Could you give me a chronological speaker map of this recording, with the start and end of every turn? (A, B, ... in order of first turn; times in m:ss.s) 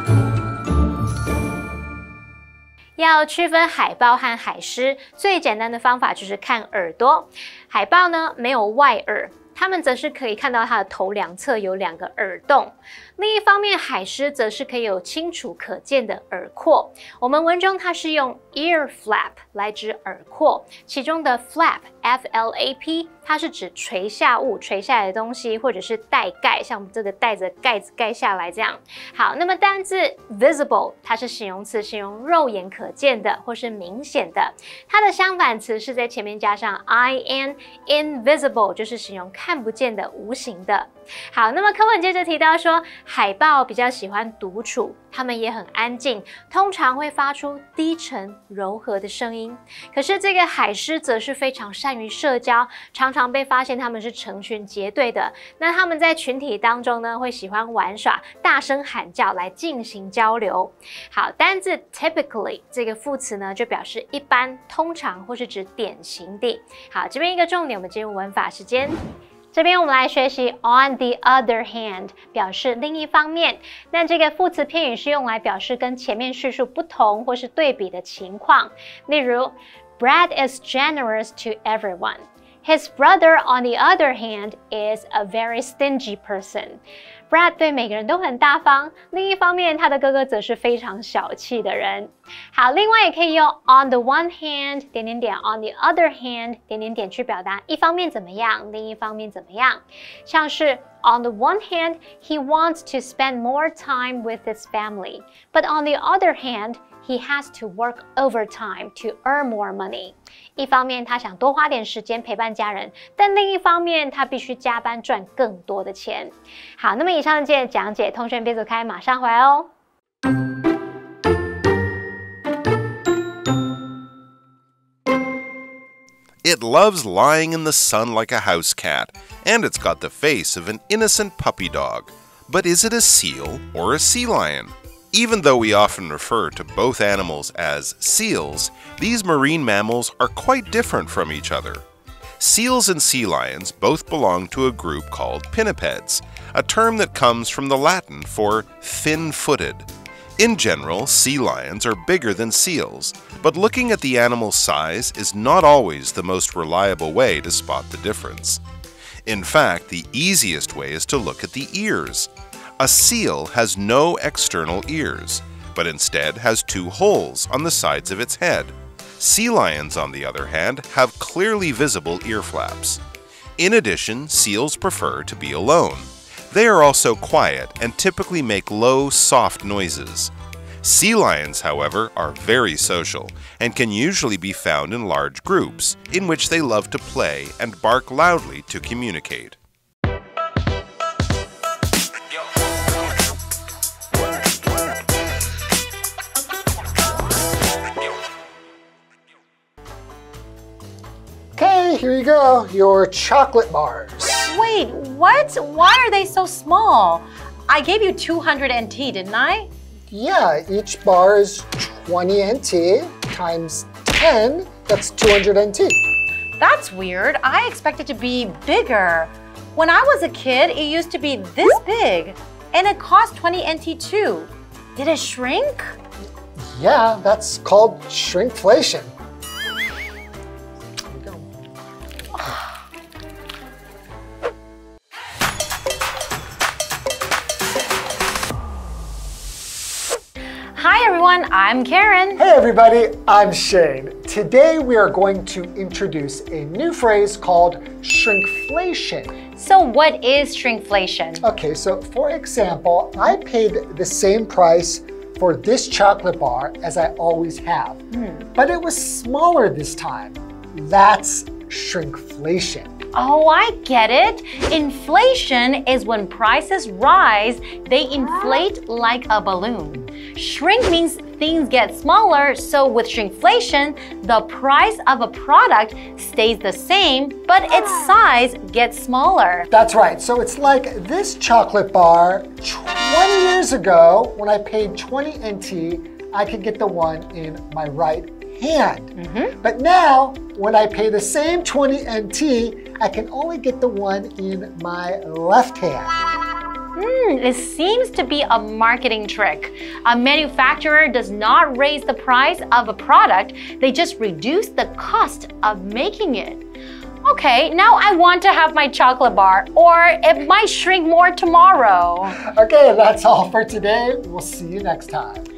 0:03.0-1:09.0 A
1:09.5-1:59.7 A
2:06.4-2:08.9 B
2:06.6-2:09.9 C
2:09.5-2:21.7 B
2:11.6-2:12.0 C
2:13.5-2:14.7 C
2:16.9-2:19.1 C
2:20.6-2:21.8 C
2:22.4-2:23.2 C
2:22.4-2:29.6 B
2:25.0-2:29.9 C
2:30.4-2:38.6 B
2:30.4-2:38.6 C
2:39.2-2:42.3 C
2:39.3-2:42.3 B
2:42.8-2:48.5 B
2:43.1-2:53.0 C
2:49.2-2:53.0 B
2:53.6-3:00.3 B
2:53.6-2:54.2 C
2:58.4-2:59.0 C
2:59.7-3:00.3 C
3:00.8-3:09.6 B
3:05.9-3:06.3 C
3:21.6-3:24.5 C
3:24.4-3:29.7 D
3:30.1-3:36.0 C
3:36.6-3:45.9 D
3:46.7-3:49.1 C
3:51.1-3:51.4 C
4:00.7-4:02.4 D
4:02.4-4:09.4 C
4:09.5-4:11.4 D
4:11.4-4:22.9 C
4:18.1-4:18.4 D
4:23.1-4:39.7 D
4:39.7-4:56.1 C
4:49.1-4:49.5 D
4:56.9-5:06.6 D
5:07.2-5:12.4 D
5:12.4-5:15.5 C